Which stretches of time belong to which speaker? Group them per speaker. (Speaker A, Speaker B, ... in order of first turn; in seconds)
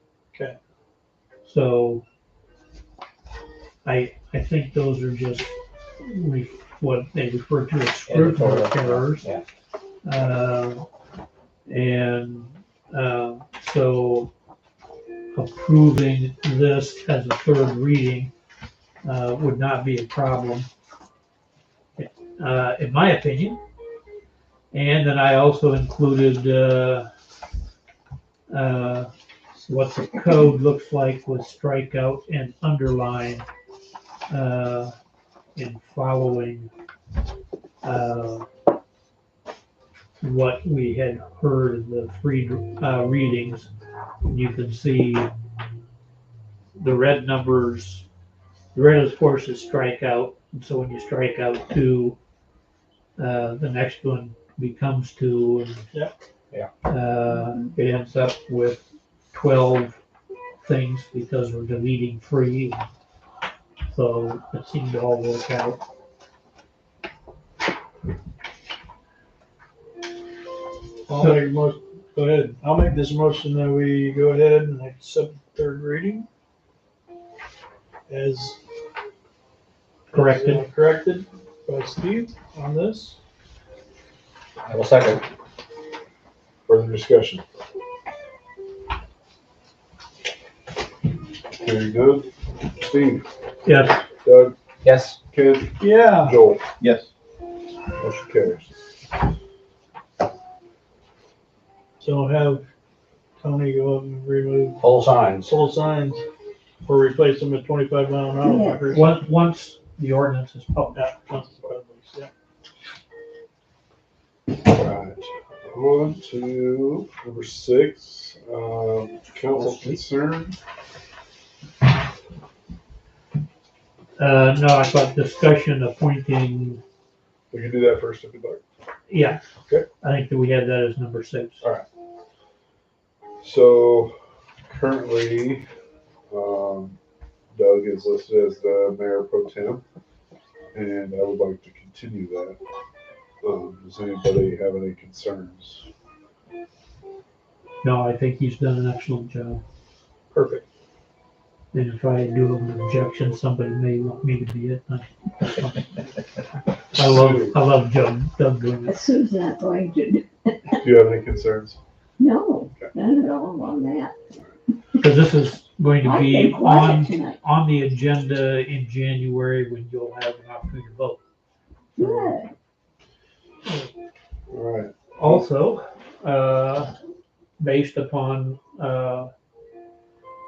Speaker A: 1.4-2.0, 3.9-9.3, 10.1-10.8, 11.7-14.3, 15.3-18.3, 19.0-20.7, 22.0-23.6, 24.7-27.1, 28.5-29.1, 29.7-33.5, 34.3-34.9, 35.6-36.7, 37.8-38.5, 40.2-43.7, 44.2-45.3, 46.8-48.1, 48.7-52.2, 53.2-55.9, 56.9-60.0, 60.6-62.9, 63.9-65.8, 71.2-71.4, 80.1-80.7, 93.7-94.0, 108.9-111.1, 119.5-120.0, 124.2-126.8, 129.1-129.4, 130.0-131.7, 147.8-149.6, 151.7-155.9, 156.9-159.0, 165.0-171.2, 172.0-172.4, 175.2-176.9, 177.6-179.3
Speaker B: 8.1-9.4, 84.7-85.2, 94.8-95.2, 104.8-105.5
Speaker C: 71.1-76.2, 78.2-78.5, 80.1-83.2, 95.8-96.3, 102.0-102.6, 103.4-104.7, 105.5-106.2, 106.9-109.0, 111.0-112.3
Speaker D: 86.7-87.4, 91.6-93.3, 94.2-94.6, 95.3-96.6, 98.0-98.7, 114.6-120.6, 127.5-128.6, 133.4-135.7, 136.3-137.0, 137.5-139.8, 140.7-142.6, 143.4-145.9, 157.0-157.6, 160.8-161.8, 174.5-175.3
Speaker E: 108.4-109.0, 158.9-160.8, 162.2-164.2, 166.0-167.4, 172.0-172.5